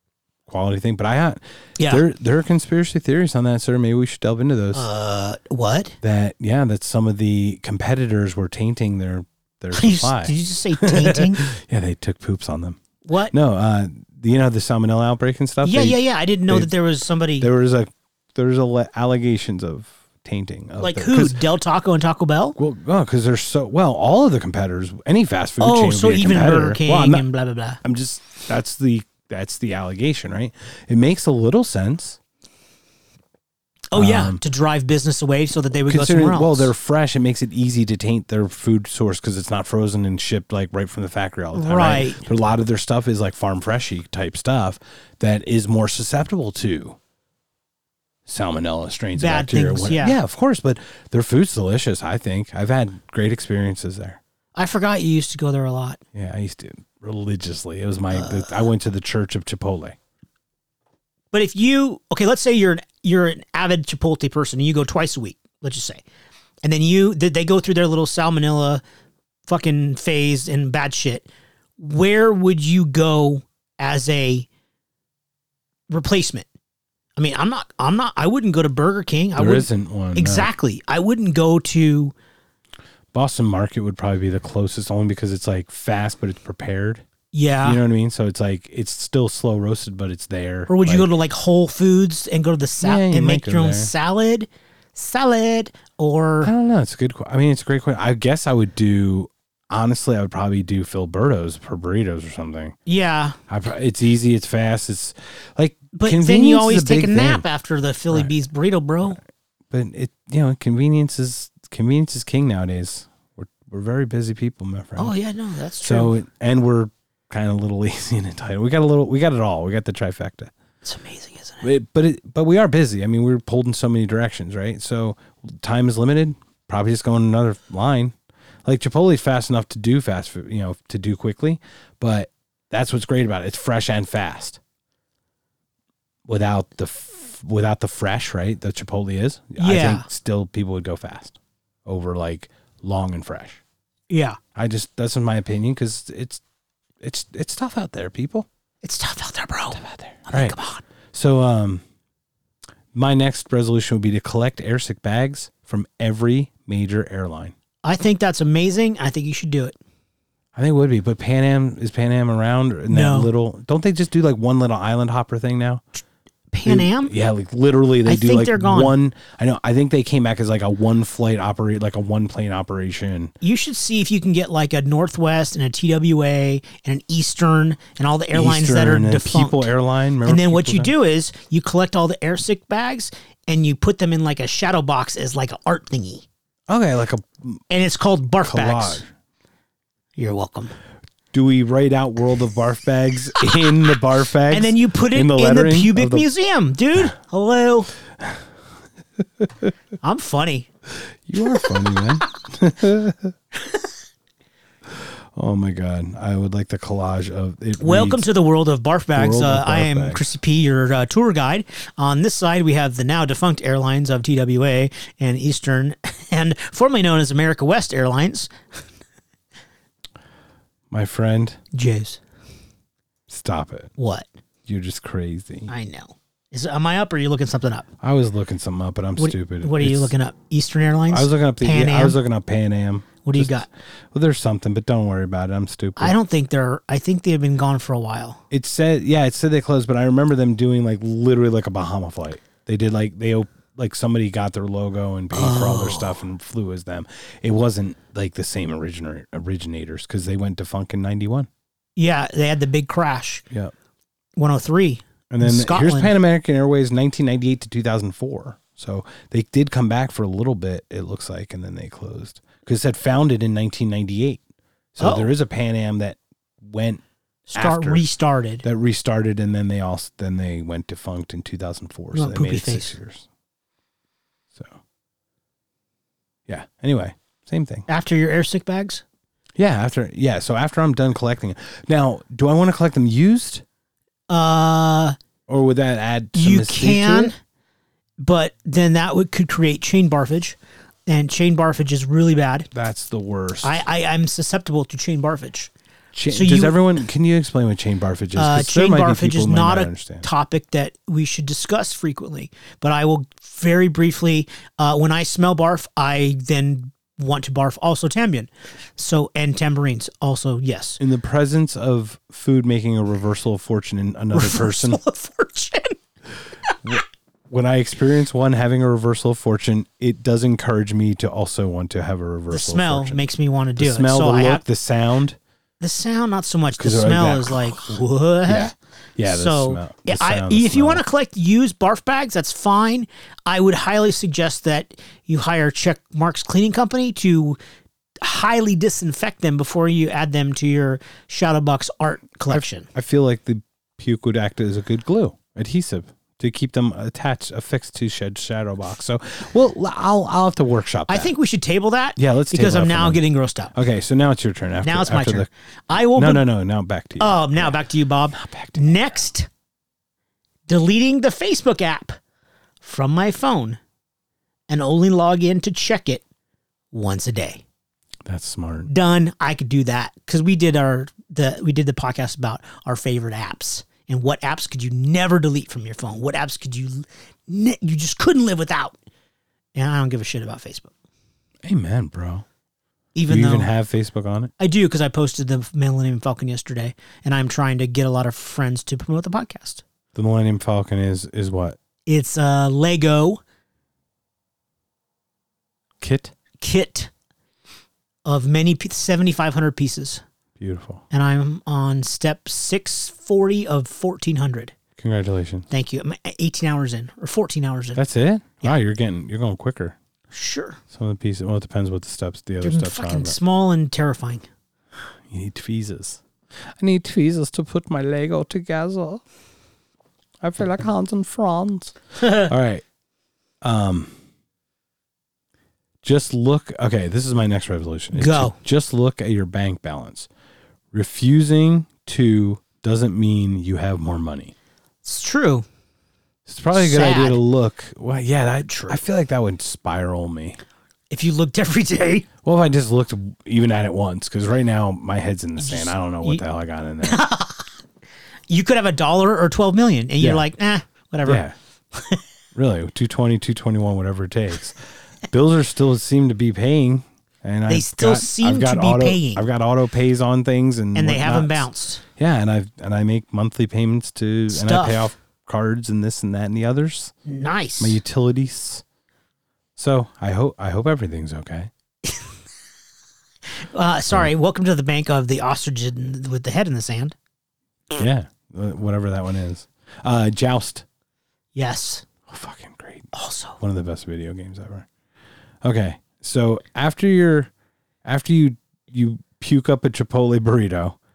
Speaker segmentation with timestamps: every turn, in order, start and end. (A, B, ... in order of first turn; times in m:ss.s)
0:00.5-0:04.9 A
0:01.8-0:02.0 B
0:04.7-0:06.0 B
0:06.0-0:12.8 A
0:09.7-0:11.5 B
0:13.0-0:13.3 B
0:13.3-0:16.7 A
0:15.6-0:17.5 B
0:17.4-0:21.4 A
0:20.8-0:22.6 B
0:22.6-0:27.2 A
0:25.6-0:27.8 B
0:27.8-0:32.2 A
0:33.9-0:36.7 B
0:33.9-0:34.4 A
0:35.9-0:47.0 A
0:41.5-0:42.2 B
0:48.2-0:54.2 A
0:49.1-0:50.2 B
0:54.5-0:56.0 B
0:56.1-1:00.0 A
0:58.1-0:58.6 B
1:01.3-1:06.0 B
1:06.6-1:08.8 B
1:09.5-1:11.3 B
1:11.8-1:14.5 B
1:15.9-1:16.4 B
1:17.2-1:22.1 B
1:19.4-1:20.5 A
1:23.1-1:27.0 A
1:27.3-1:27.8 B
1:27.6-1:31.1 A
1:30.7-1:36.5 B
1:32.8-1:33.9 A
1:36.4-1:42.8 A
1:42.8-1:43.4 B
1:43.5-1:47.4 A
1:45.9-1:49.2 B
1:49.7-1:55.1 A
1:55.0-1:56.1 B
1:55.8-2:00.5 A
2:00.8-2:01.6 B
2:01.6-2:08.1 A
2:08.6-2:14.6 A
2:16.3-2:23.6 A
2:19.6-2:20.0 B
2:24.1-2:24.4 B
2:24.5-2:26.4 A
2:27.0-2:28.5 A
2:28.8-2:30.8 B
2:29.7-2:30.6 A
2:31.1-2:31.8 A
2:32.9-2:37.5 A
2:37.8-2:39.8 B
2:40.5-2:45.8 A
2:42.9-2:43.3 B
2:46.5-2:47.1 B
2:46.6-2:53.3 A
2:48.0-2:48.9 B
2:53.4-2:59.7 B
2:58.3-3:00.9 A
3:00.2-3:06.2 B
3:06.7-3:07.6 A
3:07.7-3:09.0 B
3:08.4-3:09.1 A
3:10.2-3:10.7 B
3:11.3-3:16.2 A
3:13.4-3:13.9 B
3:14.5-3:17.9 B
3:18.2-3:18.4 A
3:19.2-3:19.7 A
3:20.0-3:20.7 B
3:21.2-3:23.3 A
3:24.9-3:28.3 A
3:27.8-3:38.8 B
3:29.1-3:30.2 A
3:40.9-3:41.6 A
3:41.7-3:42.2 B
3:43.3-3:43.9 A
3:44.0-3:44.3 B
3:44.6-3:45.7 A
3:45.7-3:47.9 B
3:48.0-3:50.1 A
3:49.2-3:52.2 B
3:51.1-3:56.1 A
3:53.2-3:53.7 B
3:56.0-3:58.4 B
3:58.5-4:11.5 A
4:05.3-4:06.2 B
4:12.0-4:13.4 B
4:14.4-4:16.1 B
4:15.3-4:24.4 A
4:24.9-4:27.0 A
4:25.0-4:25.3 B
4:27.5-4:28.6 B
4:27.5-4:28.0 A
4:28.6-4:33.3 A
4:32.1-4:32.9 B
4:36.5-4:37.9 A
4:37.9-4:39.0 B
4:39.6-4:43.6 A
4:44.3-4:45.2 B
4:45.5-4:47.3 A
4:46.3-4:47.4 B
4:48.2-4:52.7 B
4:52.7-4:53.8 A
4:53.6-4:55.7 B
4:56.1-5:00.3 A
4:56.3-4:56.8 B
4:58.4-5:11.0 B
5:11.0-5:15.0 A
5:14.3-5:16.0 B
5:16.8-5:23.2 A
5:22.5-5:24.6 B
5:23.8-5:25.4 A
5:25.8-5:28.7 B
5:26.7-5:31.0 A
5:29.2-5:37.6 B
5:38.2-5:42.9 B
5:42.5-5:51.3 A
5:51.1-5:53.7 B
5:52.2-5:59.1 A
5:54.8-5:56.5 B
5:57.2-5:59.5 B
6:00.7-6:02.2 B
6:02.8-6:03.8 B
6:04.7-6:06.2 B
6:06.9-6:07.6 B
6:08.2-6:08.9 A
6:08.9-6:19.0 B
6:19.7-6:20.9 B
6:21.6-6:22.4 A
6:23.1-6:23.7 B
6:23.3-6:24.5 A
6:24.6-6:29.8 B
6:30.1-6:31.8 A
6:32.0-6:33.4 B
6:36.0-6:36.4 A
6:36.6-6:37.1 B
6:38.2-6:40.2 B
6:40.6-6:41.0 A
6:41.1-6:44.7 B
6:45.0-6:45.7 A
6:45.7-6:48.0 B
6:48.0-6:50.0 A
6:50.3-6:50.8 B
6:50.9-6:53.4 A
6:52.6-6:54.4 B
6:55.3-6:56.2 A
6:56.8-6:59.2 A
7:00.4-7:02.8 A
7:02.2-7:02.5 B
7:03.6-7:04.1 A
7:06.0-7:10.3 A
7:08.1-7:08.6 B
7:10.9-7:14.5 A
7:15.0-7:15.6 B
7:16.4-7:20.6 A
7:16.7-7:17.4 B
7:18.7-7:19.0 B
7:21.1-7:22.3 B
7:22.4-7:27.2 A
7:25.6-7:26.4 B
7:27.0-7:27.7 B
7:28.5-7:31.4 B
7:30.2-7:30.4 A
7:31.2-7:31.5 A
7:31.9-7:32.2 B
7:32.5-7:47.1 A
7:37.7-7:39.4 B
7:40.9-7:42.0 B
7:44.5-7:45.1 B
7:47.2-7:48.0 B
7:47.8-7:48.8 A
7:49.8-7:51.7 A
7:53.6-7:57.2 B
7:57.9-8:00.8 A
8:01.5-8:02.0 B
8:02.3-8:04.9 A
8:03.1-8:03.6 B
8:05.6-8:07.5 A
8:08.0-8:11.0 A